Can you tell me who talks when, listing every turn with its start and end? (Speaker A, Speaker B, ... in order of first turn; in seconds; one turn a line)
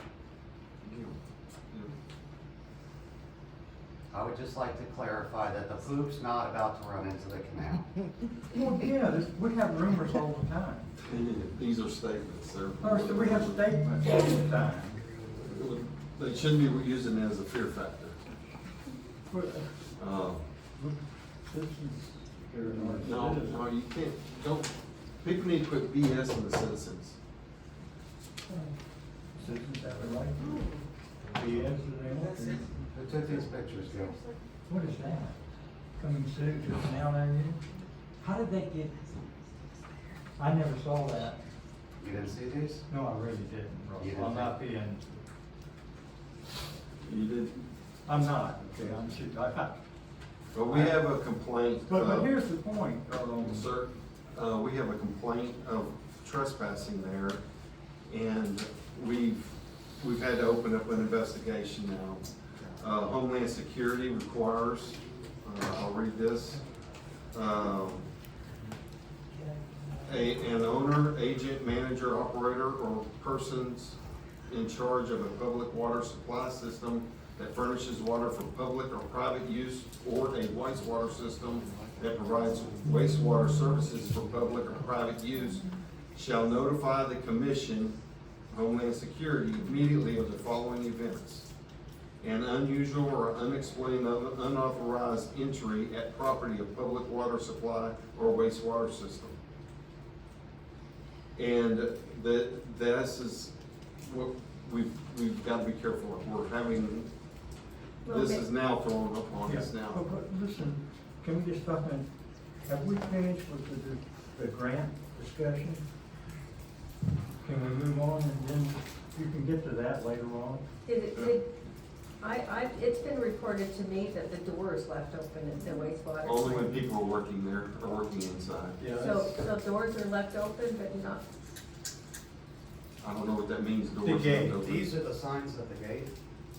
Speaker A: 0.8-1.2
Speaker A: 1.7-1.9
Speaker B: 4.1-7.9
Speaker C: 8.5-10.9
Speaker A: 11.0-13.6
Speaker C: 12.8-15.0
Speaker A: 15.4-18.2
Speaker C: 19.3-19.7
Speaker A: 20.0-20.4
Speaker C: 20.8-23.6
Speaker A: 23.0-24.7
Speaker A: 25.2-27.2
Speaker C: 29.4-30.7
Speaker C: 31.3-32.8
Speaker B: 32.9-34.2
Speaker C: 34.7-35.4
Speaker C: 36.0-37.6
Speaker C: 38.2-38.9
Speaker C: 40.4-41.4
Speaker B: 42.0-42.9
Speaker C: 42.9-45.1
Speaker B: 44.0-44.5
Speaker A: 47.0-47.6
Speaker C: 48.1-49.8
Speaker A: 50.5-52.3
Speaker C: 50.7-51.0
Speaker C: 51.9-53.7
Speaker A: 53.4-57.4
Speaker A: 58.1-62.3
Speaker A: 62.8-66.6
Speaker A: 67.3-68.1
Speaker A: 70.0-88.0
Speaker A: 88.5-91.5
Speaker A: 92.2-99.4
Speaker A: 101.3-107.1
Speaker D: 108.0-108.4
Speaker A: 108.1-110.0
Speaker C: 109.5-112.1
Speaker C: 112.7-115.8
Speaker C: 117.4-120.6
Speaker D: 120.8-121.5
Speaker D: 122.2-126.7
Speaker A: 126.2-128.8
Speaker C: 128.8-129.4
Speaker D: 128.9-131.2
Speaker A: 133.0-134.9
Speaker C: 134.0-134.6
Speaker B: 134.4-136.1